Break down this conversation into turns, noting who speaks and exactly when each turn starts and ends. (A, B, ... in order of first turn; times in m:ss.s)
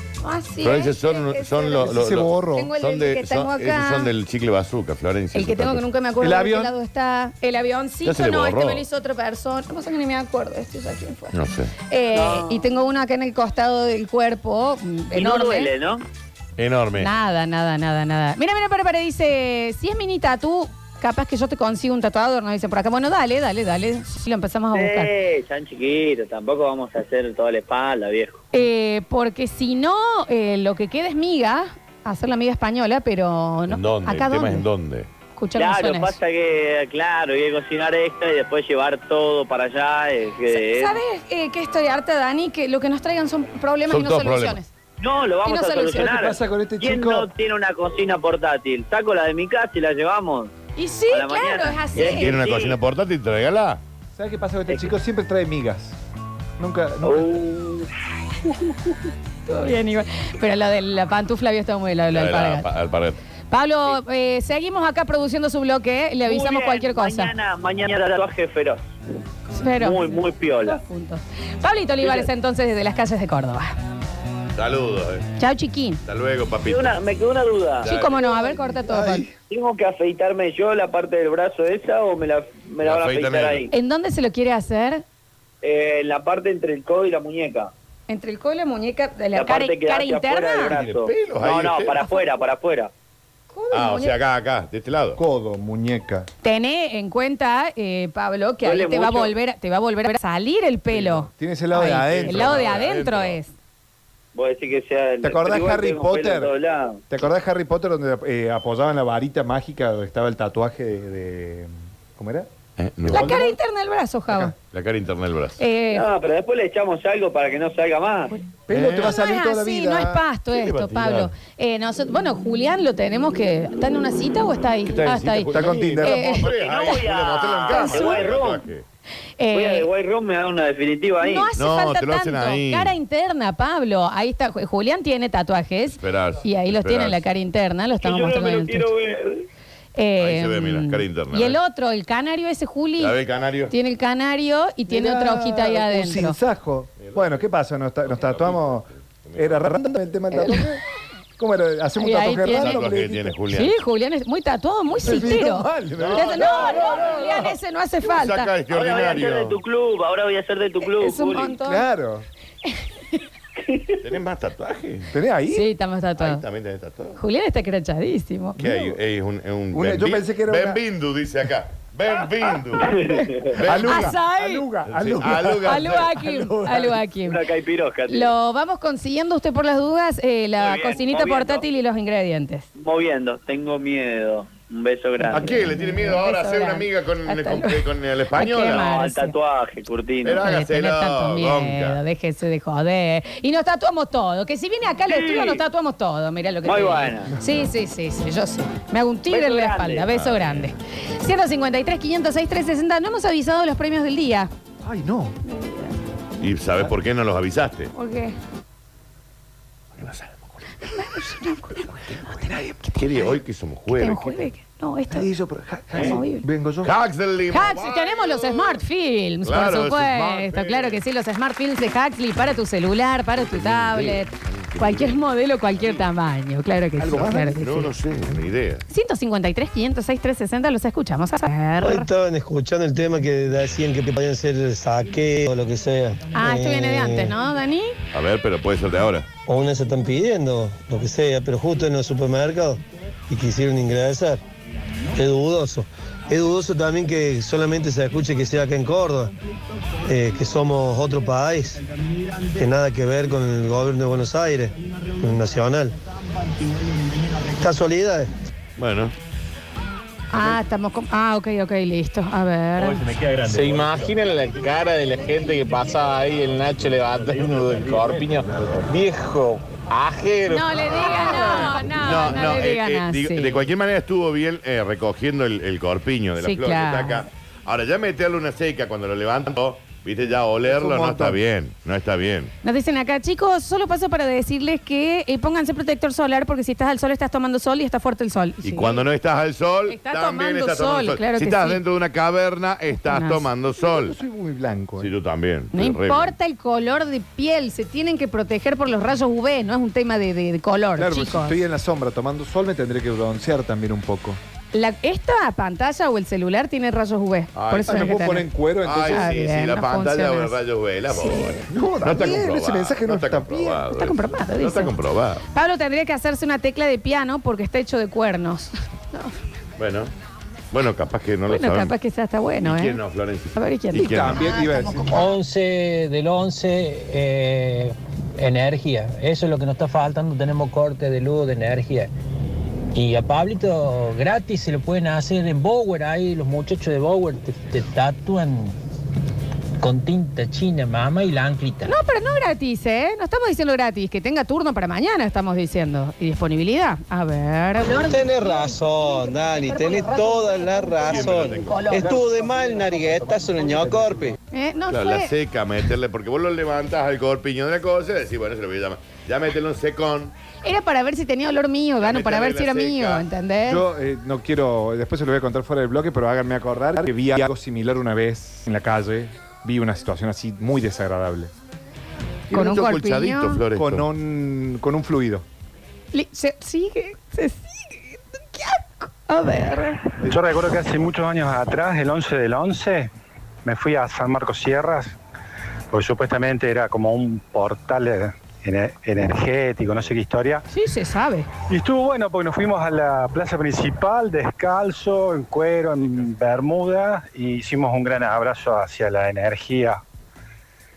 0:00.2-0:04.1 A
0:00.6-0:05.8 B
0:01.8-0:02.7 C
0:05.3-0:15.7 A
0:06.2-0:06.7 C
0:08.0-0:08.8 B
0:11.3-0:11.7 B
0:12.1-0:12.7 D
0:15.2-0:16.0 D
0:16.6-0:17.1 B
0:17.0-0:25.1 A
0:24.7-0:28.4 D
0:28.5-0:34.7 A
0:33.7-0:35.1 B
0:35.4-0:36.2 A
0:35.6-0:41.0 D
0:40.5-0:44.7 A
0:43.9-0:44.6 B
0:45.0-0:50.5 D
0:45.4-0:46.1 A
0:46.0-0:47.3 C
0:50.8-0:52.4 A
0:51.1-0:52.8 D
0:52.0-0:53.8 B
0:54.2-0:56.0 C
0:56.6-0:57.4 C
0:57.0-0:57.9 D
0:58.5-0:58.8 D
0:59.5-1:02.7 A
1:02.1-1:03.2 B
1:03.5-1:07.3 A
1:06.2-1:08.8 D
1:09.6-1:13.8 A
1:09.8-1:10.8 D
1:12.0-1:12.3 D
1:14.5-1:15.3 B
1:15.4-1:16.0 A
1:16.1-1:17.0 B
1:16.6-1:17.9 D
1:17.8-1:18.4 B
1:17.8-1:19.3 A
1:18.8-1:19.3 C
1:19.5-1:23.7 D
1:22.8-1:23.7 B
1:23.7-1:25.0 A
1:25.6-1:27.7 D
1:28.1-1:30.8 A
1:29.4-1:32.9 D
1:30.7-1:32.0 B
1:33.5-1:34.2 A
1:33.7-1:35.2 B
1:35.2-1:36.3 C
1:36.4-1:43.5 A
1:38.6-1:39.4 D
1:41.3-1:42.8 C
1:42.0-1:43.4 B
1:44.4-1:47.0 D
1:45.2-1:46.5 C
1:47.1-1:52.5 C
1:52.8-1:53.6 B
1:53.1-1:53.4 C
1:53.1-1:54.6 A
1:54.3-1:54.5 C
1:54.7-1:55.6 B
1:55.6-1:56.1 A
1:55.9-1:58.4 D
1:58.7-2:00.2 C
1:58.7-1:59.2 B
1:59.0-2:06.5 A
2:00.5-2:01.3 B
2:04.9-2:08.8 B
2:05.5-2:06.3 C
2:06.4-2:08.6 D
2:07.7-2:08.3 A
2:09.4-2:09.9 A
2:09.5-2:11.5 D
2:11.2-2:18.9 A
2:11.6-2:13.0 B
2:16.0-2:17.2 B
2:18.0-2:19.5 D
2:20.0-2:23.2 A
2:20.2-2:21.6 B
2:23.0-2:23.7 B
2:23.7-2:26.4 A
2:24.9-2:30.8 C
2:27.0-2:27.4 B
2:28.1-2:28.7 B
2:29.2-2:29.7 B
2:30.4-2:30.6 A
2:31.4-2:33.4 C
2:32.0-2:32.9 A
2:32.5-2:33.8 B
2:33.5-2:38.5 A
2:35.0-2:37.4 C
2:36.0-2:37.4 B
2:38.0-2:39.6 B
2:38.7-2:41.6 D
2:40.8-2:41.8 A
2:41.6-2:42.3 C
2:42.7-2:43.2 A
2:43.6-2:44.0 D
2:44.0-2:45.1 B
2:45.1-2:45.7 C
2:45.5-2:46.4 A
2:46.2-2:47.2 B
2:47.2-2:48.6 A
2:48.6-2:49.0 C
2:48.6-2:54.2 B
2:49.7-2:50.8 C
2:52.7-2:53.5 D
2:53.6-2:57.0 C
2:53.8-2:54.7 A
2:54.9-2:56.1 B
2:55.6-2:57.4 A
2:57.3-2:58.3 D
2:58.1-3:02.7 A
3:00.6-3:01.6 D
3:02.8-3:05.6 D
3:05.3-3:08.9 B
3:05.4-3:09.3 A
3:08.5-3:10.5 D
3:10.2-3:12.0 B
3:10.4-3:24.5 A
3:15.1-3:15.6 D
3:16.6-3:17.3 D
3:19.3-3:20.1 D
3:20.1-3:20.7 B
3:24.8-3:25.4 C
3:25.4-3:26.0 A
3:26.4-3:27.9 B
3:27.9-3:28.4 A
3:30.0-3:30.9 B
3:30.8-3:32.9 A
3:31.9-3:32.8 C
3:33.0-3:34.5 B
3:33.9-3:35.3 A
3:35.1-3:36.9 C
3:35.9-3:36.2 B
3:35.9-3:36.5 A
3:36.8-3:38.8 B
3:37.5-3:47.9 A
3:39.4-3:41.0 B
3:43.4-3:45.2 B
3:47.0-3:47.6 C
3:47.5-3:48.8 B
3:48.9-3:52.1 A
3:51.8-3:57.3 E
3:56.3-3:58.0 A
3:58.1-3:59.3 B
3:59.5-4:04.4 E
4:05.1-4:09.3 E
4:10.0-4:11.8 E
4:12.4-4:16.0 E
4:17.5-4:18.3 E
4:18.8-4:19.1 B
4:20.3-4:23.0 A
4:23.1-4:31.0 F
4:30.5-4:33.6 A
4:31.0-4:42.5 B
4:36.4-4:37.2 A
4:40.6-4:41.4 C
4:42.6-4:49.0 A
4:48.6-4:54.2 B
4:49.9-4:51.8 A
4:53.0-4:53.5 A
4:53.7-4:55.1 C
4:55.0-4:56.3 B
4:55.7-5:01.6 A
5:01.0-5:04.4 C
5:04.7-5:08.5 A
5:07.6-5:08.2 B
5:07.8-5:09.4 C
5:08.8-5:15.4 B
5:09.0-5:10.6 A
5:11.1-5:11.6 A
5:11.7-5:13.9 C
5:14.0-5:14.9 A
5:15.5-5:19.3 A
5:19.8-5:20.1 B
5:20.7-5:22.0 B
5:21.5-5:23.0 A
5:22.6-5:24.5 B
5:23.5-5:25.2 A
5:24.0-5:25.3 C
5:25.1-5:32.1 G
5:32.9-5:38.8 G
5:39.8-5:42.0 G
5:41.9-5:48.8 A
5:47.9-5:54.4 E
5:49.4-5:52.2 A
5:51.0-5:51.9 B
5:54.5-5:55.3 A
5:54.9-6:00.4 B
6:00.6-6:03.8 A
6:02.0-6:03.3 B
6:03.7-6:11.5 C
6:12.5-6:14.1 B
6:12.5-6:13.6 A
6:13.7-6:15.4 C
6:16.1-6:20.1 A
6:20.2-6:23.1 H
6:23.6-6:25.2 H
6:25.9-6:30.6 H
6:30.7-6:31.5 A
6:31.7-6:40.0 H